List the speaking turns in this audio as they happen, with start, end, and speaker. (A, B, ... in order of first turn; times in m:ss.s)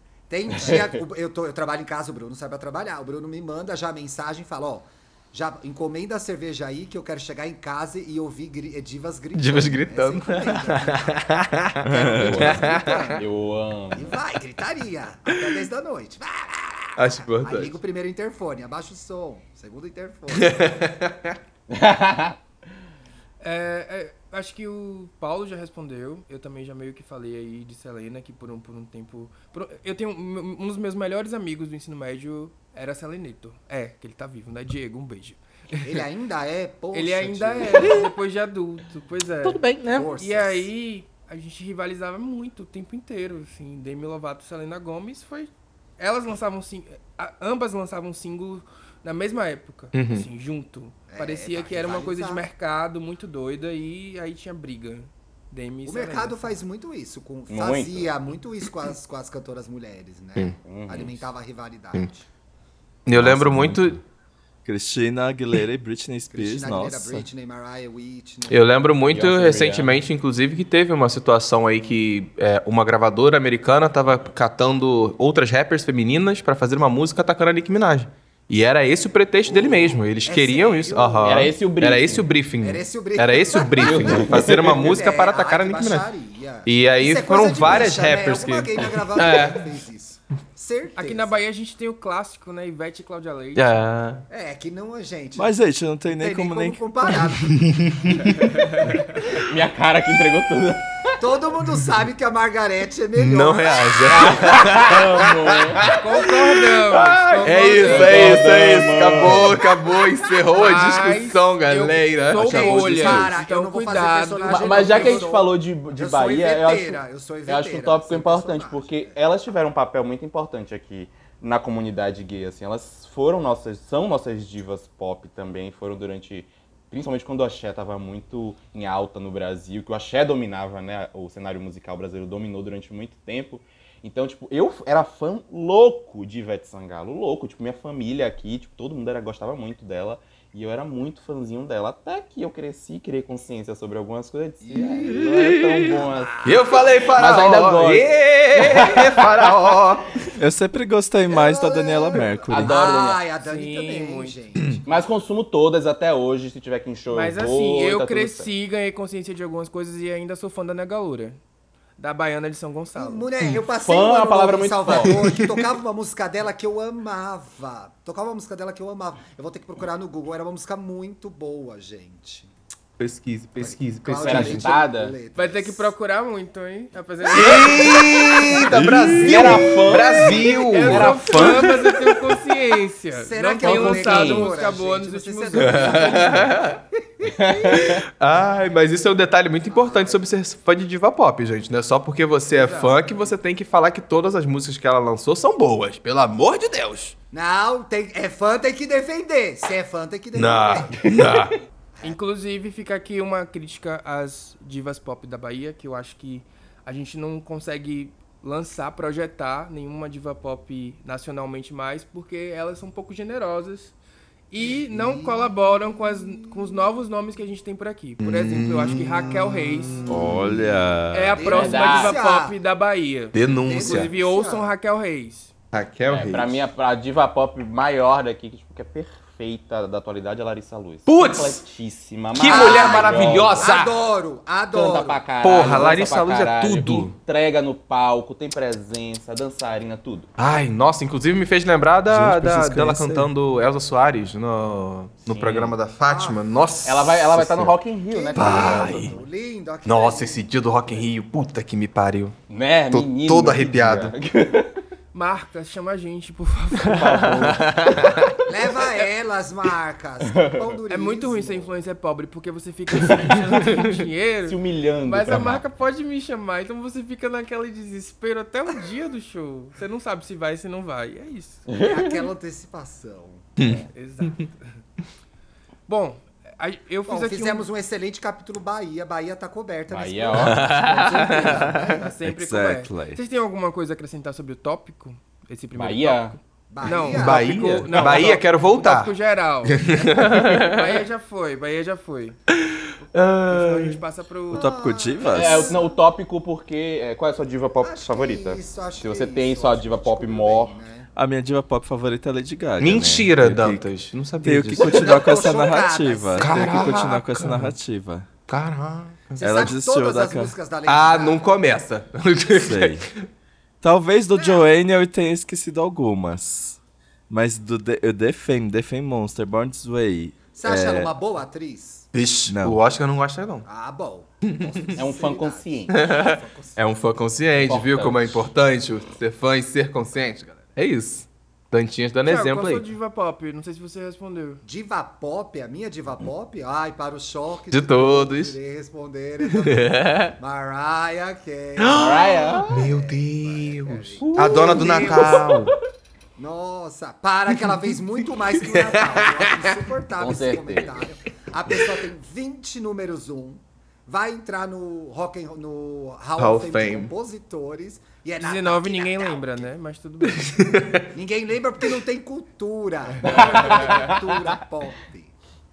0:00.3-0:13.2 A
0:00.5-0:00.9 B
0:09.3-0:13.1 C
0:11.8-0:12.5 D
0:12.2-0:14.1 B
0:13.9-0:20.8 A
0:17.0-0:17.7 C
0:20.3-0:21.4 C
0:21.7-0:22.4 B
0:23.4-0:36.0 E
0:35.8-0:38.1 A
0:36.9-0:39.6 E
0:39.4-0:40.1 C
0:39.9-0:40.7 A
0:40.2-0:56.5 E
0:49.9-0:50.2 C
0:51.1-0:52.4 A
0:55.8-1:02.3 A
0:57.5-0:58.1 B
1:00.6-1:01.1 B
1:03.0-1:04.0 C
1:03.1-1:04.0 D
1:04.6-1:07.2 D
1:06.3-1:08.6 A
1:08.5-1:26.1 C
1:09.1-1:10.0 B
1:19.4-1:21.5 A
1:21.2-1:22.3 B
1:22.6-1:31.4 A
1:23.7-1:25.0 B
1:26.6-1:29.6 C
1:31.0-1:33.8 E
1:33.5-1:34.2 C
1:34.3-1:35.5 A
1:35.4-1:36.8 D
1:36.0-1:37.7 A
1:37.4-1:38.5 C
1:39.3-1:41.2 B
1:41.2-1:44.6 A
1:43.2-1:53.2 C
1:44.0-1:46.0 B
1:45.9-1:48.4 E
1:47.6-1:49.6 B
1:50.5-1:55.2 E
1:52.4-1:59.1 A
1:52.9-1:53.3 D
1:54.5-2:26.4 B
2:24.6-2:27.2 A
2:25.0-2:25.9 C
2:26.4-2:30.3 C
2:27.1-2:29.5 B
2:30.4-2:32.7 D
2:31.3-2:35.0 A
2:32.5-2:33.2 B
2:33.4-2:34.4 E
2:34.9-2:38.5 B
2:37.1-2:41.4 E
2:42.0-2:43.3 E
2:42.9-2:52.5 A
2:43.8-2:45.2 B
2:45.0-2:45.6 C
2:53.0-2:54.7 C
2:53.6-2:55.9 A
2:54.2-2:55.2 B
2:55.3-2:58.0 E
2:57.3-2:59.5 A
2:57.3-3:01.8 C
2:59.1-3:01.8 B
3:00.3-3:06.4 E
3:03.1-3:07.8 A
3:03.6-3:04.5 B
3:05.6-3:06.8 C
3:07.2-3:08.0 B
3:07.7-3:17.1 C
3:09.6-3:10.2 A
3:12.5-3:13.0 E
3:17.3-3:21.0 A
3:20.3-3:21.5 C
3:22.0-3:33.9 E
3:34.5-3:40.1 E
3:34.6-3:36.9 A
3:38.2-3:40.4 C
3:40.1-3:41.4 D
3:41.1-3:45.5 E
3:41.3-3:42.6 A
3:41.5-3:42.2 B
3:43.3-3:44.1 C
3:43.6-3:44.7 A
3:45.7-3:46.6 C
3:46.1-3:53.7 B
3:51.0-3:51.6 C
3:52.3-3:54.0 C
3:52.4-3:55.8 A
3:54.7-4:00.3 B
3:55.4-3:57.1 C
4:00.4-4:07.7 C
4:02.1-4:03.3 D
4:05.3-4:05.7 B
4:06.0-4:06.8 A
4:06.8-4:09.2 B
4:08.1-4:10.4 A
4:08.3-4:09.1 C
4:09.8-4:12.3 C
4:12.5-4:14.8 B
4:12.9-4:14.1 C
4:15.1-4:17.6 E
4:16.8-4:18.2 B
4:17.0-4:18.4 C
4:18.4-4:21.7 A
4:20.2-4:20.6 B
4:20.9-4:31.7 E
4:24.4-4:25.6 B
4:31.7-4:32.2 B
4:31.8-4:33.5 A
4:33.6-4:33.8 C
4:33.9-4:34.8 E
4:35.9-4:37.7 E
4:37.1-4:42.1 A
4:39.9-4:41.3 B
4:40.3-4:42.0 C
4:41.9-4:49.8 E
4:42.2-4:43.2 D
4:45.7-4:46.4 B
4:46.7-4:47.6 A
4:47.1-4:49.1 C
4:47.9-4:48.3 B
4:49.6-4:51.0 C
4:50.0-4:50.3 A
4:50.4-4:52.4 E
4:53.1-4:54.0 C
4:53.4-4:54.7 E
4:54.5-4:55.9 A
4:54.5-4:55.7 D
4:55.2-5:00.8 B
4:57.8-5:01.1 A
5:01.1-5:03.9 D
5:02.8-5:05.5 C
5:04.4-5:08.3 D
5:04.9-5:07.0 A
5:06.4-5:07.7 C
5:08.5-5:09.7 C
5:09.4-5:10.5 D
5:09.4-5:11.5 A
5:10.8-5:13.1 C
5:12.5-5:13.0 D
5:13.8-5:16.8 D
5:14.3-5:14.7 A
5:17.3-5:21.1 D
5:20.5-5:22.1 A
5:22.1-5:23.6 C
5:22.5-5:22.8 D
5:23.6-5:26.8 A
5:24.5-5:25.0 C
5:24.9-5:25.9 B
5:25.9-5:32.8 C
5:27.6-5:28.5 B
5:32.2-5:34.6 E
5:34.6-5:45.5 A
5:37.7-5:38.6 C
5:39.5-5:40.3 C
5:41.8-5:45.8 C
5:41.9-5:42.8 B
5:44.2-5:45.7 B
5:46.4-5:59.7 A
5:48.7-5:49.6 C
5:50.2-5:51.0 B
5:56.4-5:57.1 C
5:58.4-6:00.8 E
6:00.5-6:01.0 C
6:01.1-6:05.3 A
6:03.2-6:04.3 B